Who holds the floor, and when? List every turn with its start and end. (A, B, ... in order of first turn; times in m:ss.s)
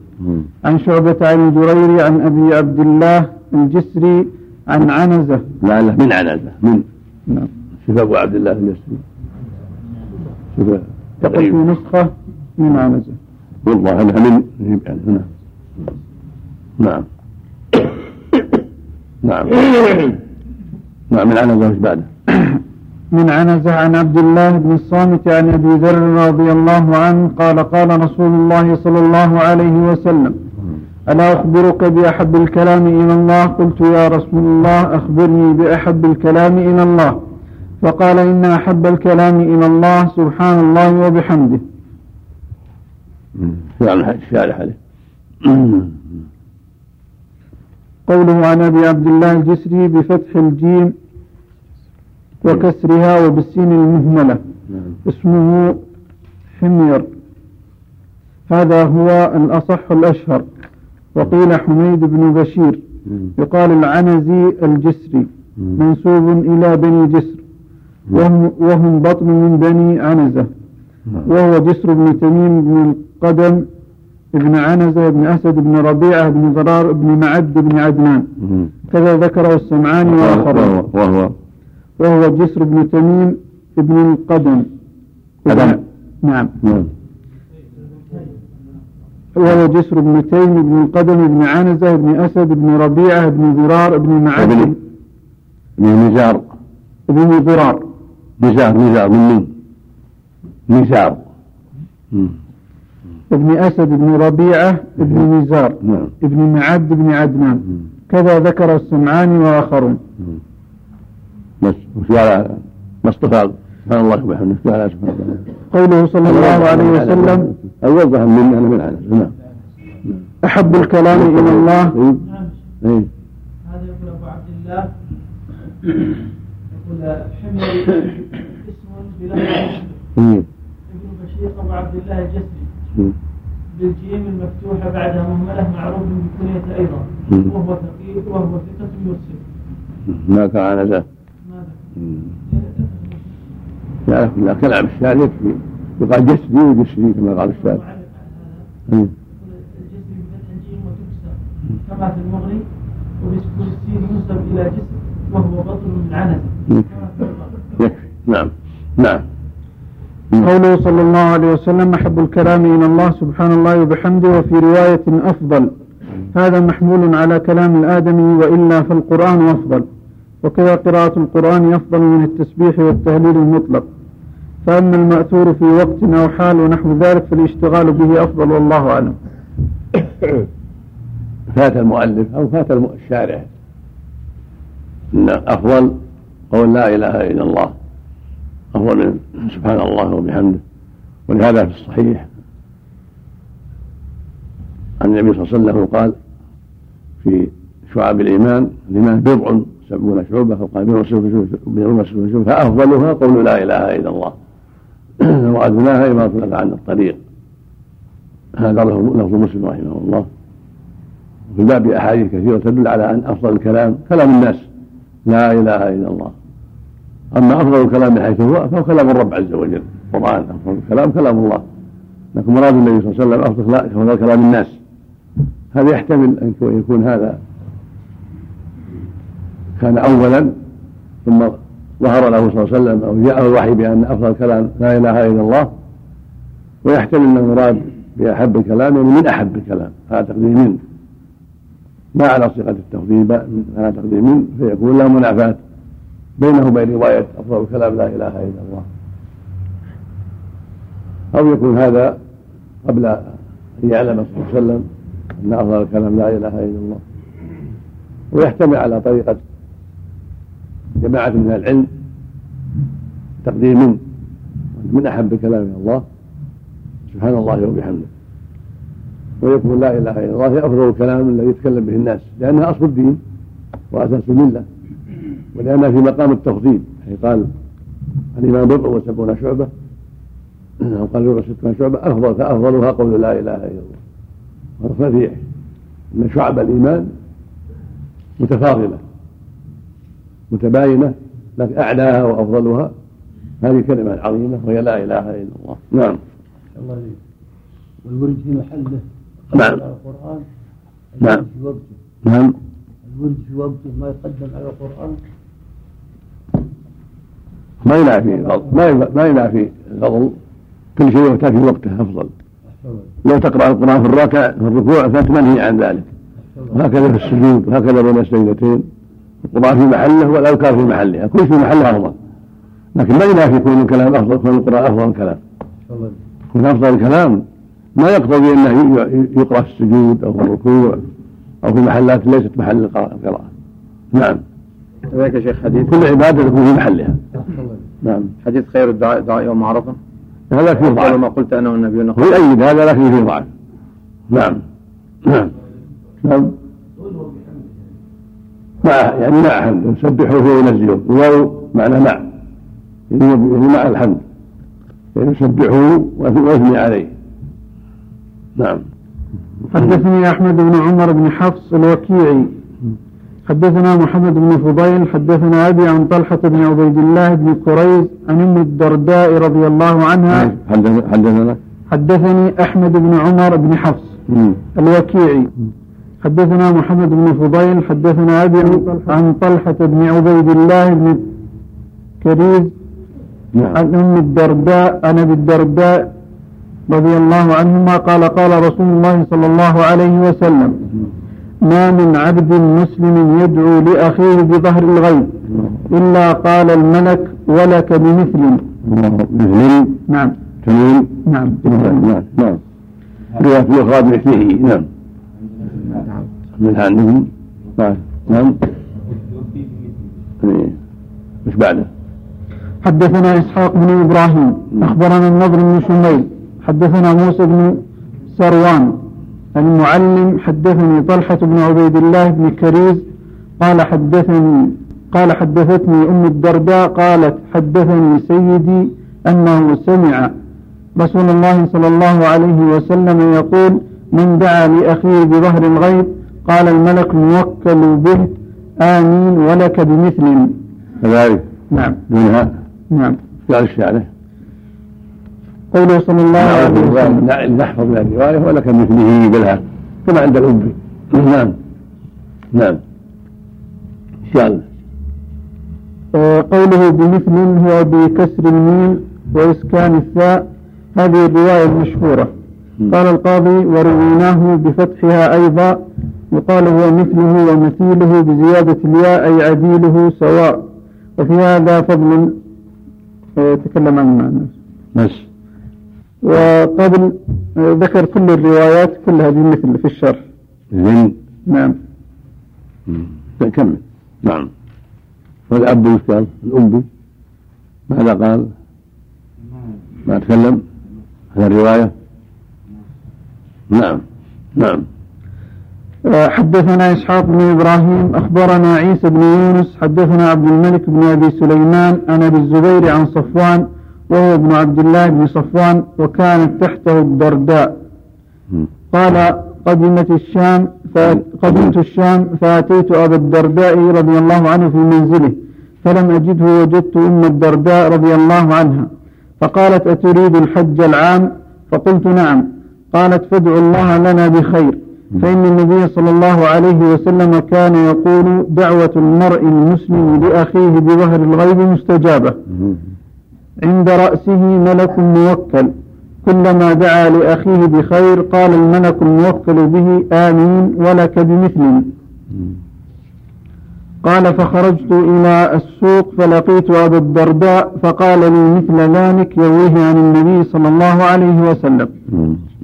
0:00.6-0:05.4 A
0:05.6-0:06.9 B
0:07.8-0:09.0 B
0:10.5-0:11.6 B
0:11.2-0:13.2 A
0:13.6-0:15.3 B
0:16.8-0:17.1 B
0:19.2-0:20.2 B
0:21.1-0:22.1 B
0:23.1-0:30.4 A
0:31.1-0:37.2 A
0:37.8-0:41.6 A
0:43.4-0:44.8 B
0:45.4-0:46.0 B
0:48.1-0:50.9 A
0:52.4-0:54.4 A
0:55.0-0:55.8 A
0:56.6-0:57.1 A
0:58.5-1:00.5 A
1:01.2-1:02.8 A
1:03.4-1:07.4 A
1:08.1-1:10.5 A
1:11.2-1:13.6 A
1:14.3-1:18.3 A
1:18.4-1:18.7 B
1:18.9-1:20.8 A
1:20.1-1:21.4 B
1:22.0-1:24.7 A
1:25.4-1:26.6 A
1:25.5-1:25.8 B
1:26.6-1:26.9 B
1:29.4-1:34.8 A
1:34.4-1:34.7 B
1:35.8-1:36.5 B
1:37.1-1:37.8 A
1:38.4-1:39.5 B
1:40.7-1:41.2 B
1:43.3-1:50.0 A
1:45.8-1:46.1 B
1:51.6-1:55.5 B
1:55.7-1:57.5 A
1:56.2-1:59.3 B
2:00.4-2:02.0 A
2:01.1-2:02.2 B
2:02.2-2:02.5 C
2:02.8-2:03.1 B
2:03.6-2:04.9 C
2:06.7-2:10.0 C
2:10.2-2:10.5 B
2:10.9-2:12.7 C
2:13.7-2:19.5 C
2:17.3-2:17.5 B
2:20.1-2:21.1 B
2:21.4-2:21.8 C
2:22.4-2:23.4 C
2:24.1-2:27.8 B
2:27.6-2:28.6 C
2:28.9-2:29.1 B
2:29.4-2:32.7 C
2:33.2-2:37.7 C
2:37.8-2:39.2 B
2:40.4-2:45.7 A
2:46.3-2:49.9 A
2:50.4-2:53.9 A
2:54.6-2:59.2 A
3:01.5-3:03.5 B
3:05.1-3:06.0 B
3:06.5-3:07.8 B
3:08.7-3:10.6 B
3:11.3-3:12.3 B
3:15.0-3:16.2 B
3:17.2-3:24.4 B
3:25.2-3:27.2 B
3:28.6-3:30.3 B
3:31.5-3:34.7 B
3:35.3-3:36.4 B
3:37.3-3:41.6 B
3:42.3-3:44.8 B
3:45.7-3:47.4 B
3:49.8-3:50.5 B
3:51.2-3:55.7 B
3:56.8-4:00.8 B
4:02.1-4:05.6 B
4:06.4-4:08.9 B
4:11.3-4:12.2 B
4:12.8-4:14.8 B
4:15.4-4:17.0 B
4:18.3-4:19.4 B
4:21.0-4:21.9 B
4:23.4-4:24.0 B
4:24.8-4:26.0 B
4:27.1-4:28.1 B
4:29.4-4:33.2 B
4:33.9-4:34.7 B
4:35.5-4:37.5 B
4:38.4-4:39.7 B
4:40.8-4:44.0 B
4:44.8-4:45.4 B
4:46.2-4:47.1 B
4:48.4-4:49.0 B
4:50.5-4:52.9 B
4:53.6-4:56.2 B
4:56.8-4:57.2 D
4:58.0-5:00.4 D
4:59.5-4:59.8 B
5:01.2-5:02.0 D
5:02.2-5:02.6 B
5:03.0-5:05.2 D
5:07.8-5:10.4 B
5:11.0-5:12.3 B
5:12.8-5:13.1 D
5:13.2-5:16.1 B
5:16.7-5:18.9 B
5:19.5-5:22.2 B
5:23.0-5:25.4 B
5:25.9-5:26.2 D
5:26.5-5:27.4 B
5:28.0-5:31.0 B
5:31.6-5:33.5 B
5:34.1-5:34.4 B
5:35.1-5:36.0 E
5:35.8-5:37.2 B
5:37.5-5:37.8 D
5:38.0-5:38.3 B
5:38.4-5:40.0 E
5:40.5-5:41.2 B
5:40.8-5:42.4 E
5:42.2-5:43.5 B
5:44.3-5:44.6 B
5:45.2-5:45.5 B
5:46.2-5:46.6 B
5:47.0-5:47.9 D
5:48.8-5:52.3 B
5:53.1-5:54.2 B
5:55.2-5:57.1 B
5:58.6-5:58.8 B
5:59.7-6:02.5 A
6:03.5-6:10.5 A
6:10.3-6:11.6 B
6:11.9-6:14.2 A
6:14.3-6:14.6 B
6:14.8-6:15.5 A
6:16.2-6:21.2 A
6:22.2-6:22.7 A
6:23.5-6:23.8 B
6:23.7-6:26.1 A
6:26.9-6:30.8 A
6:31.6-6:35.4 A
6:35.9-6:38.7 A
6:38.8-6:40.0 B
6:40.1-6:40.4 A
6:40.6-6:42.6 B
6:41.2-6:42.0 A
6:43.4-6:44.9 B
6:45.6-6:46.3 D
6:46.6-6:48.6 B
6:49.1-6:50.0 D
6:50.4-6:50.8 B
6:51.4-6:51.9 B
6:52.8-6:57.8 A
6:58.3-6:59.0 A
6:59.6-7:03.0 A
7:03.6-7:10.3 A
7:11.0-7:20.6 A
7:21.0-7:21.4 B
7:21.7-7:22.0 A
7:22.1-7:22.6 B
7:22.9-7:23.2 A
7:23.5-7:24.1 B
7:25.7-7:27.2 A
7:26.4-7:31.6 B
7:32.5-7:32.8 B
7:34.3-7:34.6 B
7:36.1-7:42.3 A
7:42.9-7:45.8 A
7:46.3-7:50.6 A
7:51.2-7:52.4 A
7:53.4-7:54.5 A
7:55.0-7:55.3 B
7:56.2-8:00.2 A
8:00.7-8:01.2 B
8:01.5-8:01.8 A
8:02.9-8:04.5 B
8:05.5-8:06.9 B
8:07.9-8:08.5 B
8:10.1-8:10.6 B
8:11.4-8:11.9 B
8:13.7-8:14.0 B
8:14.6-8:14.9 B
8:16.0-8:27.7 A
8:28.9-8:38.9 A
8:39.4-8:52.4 A
8:53.6-8:55.7 A
8:56.2-9:01.9 A
9:04.0-9:11.9 A
9:12.1-9:12.4 B